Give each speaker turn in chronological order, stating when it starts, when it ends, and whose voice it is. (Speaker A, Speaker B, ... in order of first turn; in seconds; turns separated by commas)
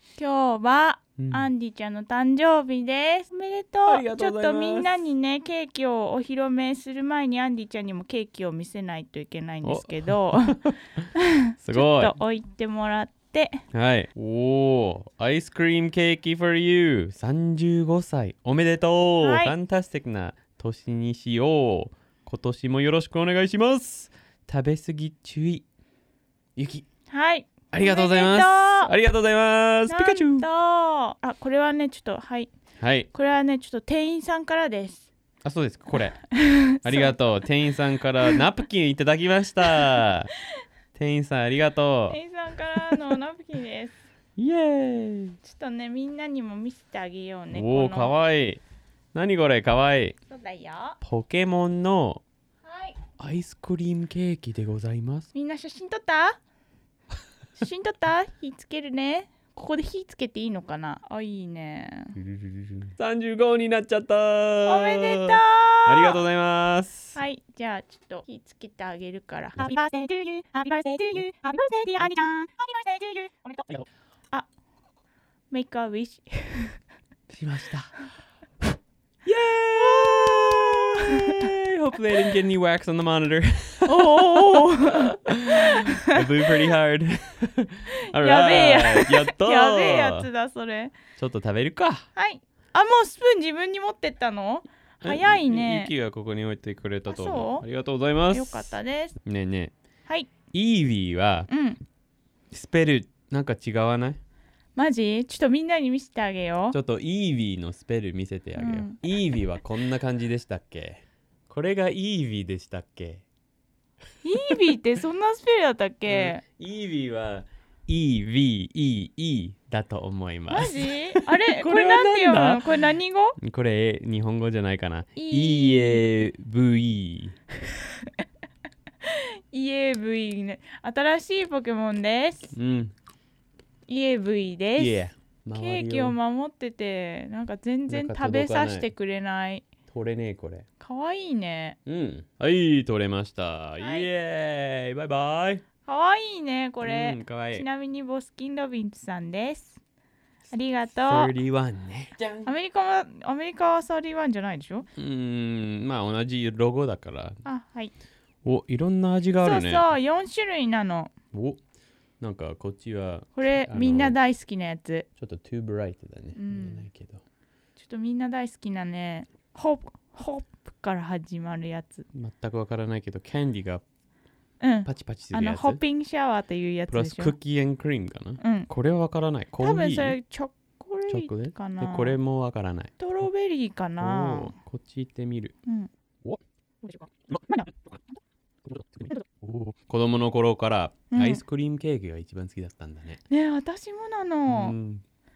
Speaker A: 0.2-10.6, Speaker B: 1.2-1.5, Speaker B: 3.9-5.0, Speaker B: 9.6-10.7, Speaker A: 11.1-13.6, Speaker B: 11.6-12.1, Speaker B: 13.7-25.6, Speaker A: 19.2-19.5, Speaker B: 26.6-26.9, Speaker A: 27.1-28.9, Speaker B: 27.7-30.4, Speaker A: 29.9-32.5, Speaker B: 32.8-33.1, Speaker A: 33.1-35.1, Speaker B: 35.4-36.2, Speaker A: 36.4-37.1, Speaker B: 36.8-40.3, Speaker B: 40.9-42.2, Speaker A: 42.1-44.0, Speaker B: 44.4-45.4, Speaker A: 45.4-48.1, Speaker B: 47.5-48.6, Speaker B: 49.1-50.1, Speaker A: 50.3-51.0, Speaker B: 51.0-52.2, Speaker A: 52.6-53.0, Speaker B: 53.2-55.3, Speaker A: 55.3-56.4, Speaker A: 57.6-62.1, Speaker B: 62.1-67.2, Speaker A: 64.7-66.2, Speaker A: 67.1-73.8, Speaker A: 75.5-76.8, Speaker B: 77.3-77.9, Speaker B: 79.2-90.3, Speaker A: 79.8-81.4, Speaker A: 83.8-86.2, Speaker A: 88.1-90.9, Speaker B: 91.2-92.0, Speaker A: 92.1-95.9, Speaker B: 95.0-98.7, Speaker A: 97.1-97.6, Speaker A: 98.3-99.2, Speaker B: 99.2-99.7, Speaker B: 100.5-101.5, Speaker A: 101.5-101.8, Speaker B: 102.5-104.2, Speaker A: 104.8-106.8, Speaker B: 106.7-113.2, Speaker A: 108.6-109.0, Speaker A: 114.2-116.4, Speaker B: 116.1-122.7, Speaker A: 120.5-123.3, Speaker B: 123.4-127.3, Speaker A: 125.1-126.0, Speaker A: 129.0-132.5, Speaker B: 132.5-132.9, Speaker A: 133.9-135.0, Speaker B: 134.8-136.2, Speaker A: 135.5-139.7, Speaker B: 137.9-138.9, Speaker B: 139.9-140.6, Speaker A: 140.8-141.8, Speaker B: 141.8-145.6, Speaker A: 143.8-144.1, Speaker A: 145.8-149.8, Speaker B: 146.8-147.7, Speaker A: 150.5-151.3, Speaker B: 151.0-152.5, Speaker A: 152.4-154.9, Speaker B: 154.9-157.4, Speaker A: 157.4-157.9, Speaker B: 158.4-159.8, Speaker A: 159.4-161.1, Speaker B: 161.3-161.6, Speaker B: 162.2-164.2, Speaker A: 163.3-165.1, Speaker B: 165.2-167.2, Speaker A: 166.3-166.9, Speaker A: 167.8-172.0, Speaker B: 172.1-173.8, Speaker A: 174.6-177.3, Speaker B: 174.8-175.8, Speaker B: 176.9-180.2, Speaker A: 178.4-178.7, Speaker A: 179.6-182.2, Speaker B: 181.1-182.9, Speaker A: 183.0-184.5, Speaker B: 184.0-185.5, Speaker A: 186.8-187.7, Speaker B: 188.7-193.2, Speaker A: 191.1-191.4, Speaker A: 193.3-194.8, Speaker B: 194.5-195.0